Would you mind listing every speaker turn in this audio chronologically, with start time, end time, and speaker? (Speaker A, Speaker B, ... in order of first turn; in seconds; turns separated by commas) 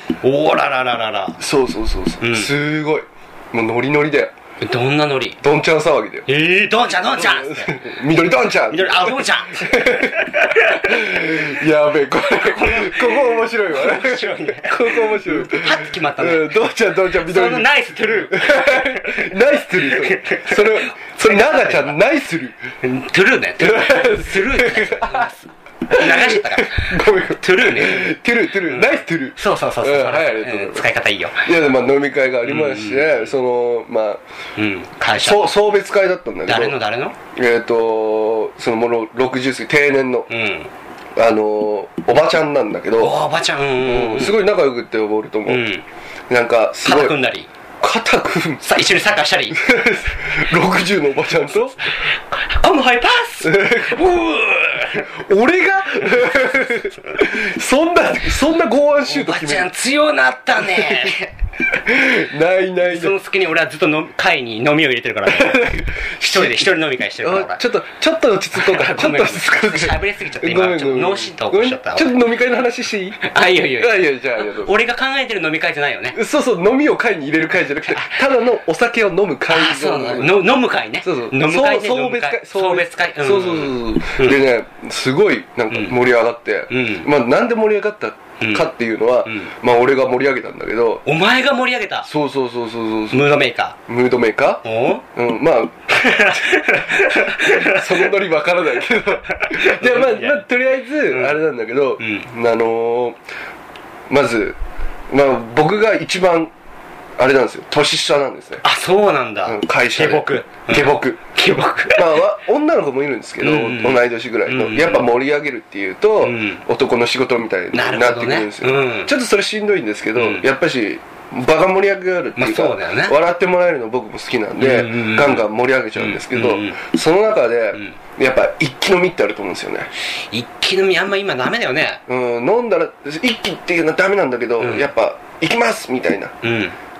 Speaker A: 0.2-1.4, Speaker B: 1.4-4.3, Speaker A: 2.2-2.5, Speaker A: 4.6-5.4, Speaker B: 5.4-6.3, Speaker A: 6.3-7.9, Speaker B: 7.0-22.6, Speaker A: 8.7-11.6, Speaker A: 12.2-22.0, Speaker A: 22.8-28.1, Speaker B: 23.6-25.3, Speaker B: 25.9-30.9, Speaker A: 28.6-31.5, Speaker B: 31.4-34.2, Speaker A: 32.5-33.3, Speaker A: 34.6-35.6, Speaker B: 35.1-36.8, Speaker A: 36.5-37.2, Speaker B: 37.4-40.3, Speaker A: 40.3-40.7, Speaker B: 41.2-43.2, Speaker A: 43.0-44.5, Speaker B: 43.8-45.6, Speaker A: 45.5-45.8, Speaker B: 46.3-47.2, Speaker A: 46.8-47.5, Speaker B: 47.8-48.6, Speaker A: 48.6-49.6, Speaker B: 49.5-51.9, Speaker A: 51.8-55.1, Speaker B: 53.4-54.3, Speaker B: 54.9-59.7, Speaker A: 56.1-57.1, Speaker A: 59.0-61.9, Speaker B: 60.6-61.1, Speaker B: 61.9-63.2, Speaker A: 62.8-67.6, Speaker B: 65.3-73.2, Speaker A: 68.5-72.2, Speaker A: 73.2-76.2, Speaker B: 73.8-74.7, Speaker B: 76.1-80.5, Speaker A: 77.9-78.2, Speaker A: 79.5-84.4, Speaker B: 81.0-91.0, Speaker A: 85.7-86.0, Speaker A: 86.7-87.1, Speaker A: 88.4-88.7, Speaker A: 89.2-89.5, Speaker A: 91.0-92.1, Speaker B: 92.0-93.3, Speaker A: 93.1-93.8, Speaker B: 93.9-94.6, Speaker A: 94.6-95.0, Speaker B: 95.2-96.5, Speaker A: 95.9-98.1, Speaker B: 97.6-103.2, Speaker A: 99.3-100.4, Speaker A: 101.0-101.5, Speaker A: 102.0-102.3, Speaker B: 104.1-104.6, Speaker B: 105.1-106.5, Speaker B: 107.2-108.6, Speaker A: 108.6-112.3, Speaker B: 109.4-111.2, Speaker B: 112.0-129.9, Speaker A: 113.4-115.1, Speaker A: 116.2-116.6, Speaker A: 117.7-119.1, Speaker A: 120.2-120.5, Speaker A: 122.4-123.2, Speaker A: 124.6-126.9, Speaker A: 130.1-132.0, Speaker B: 132.1-136.3, Speaker A: 134.6-134.9, Speaker A: 136.4-136.8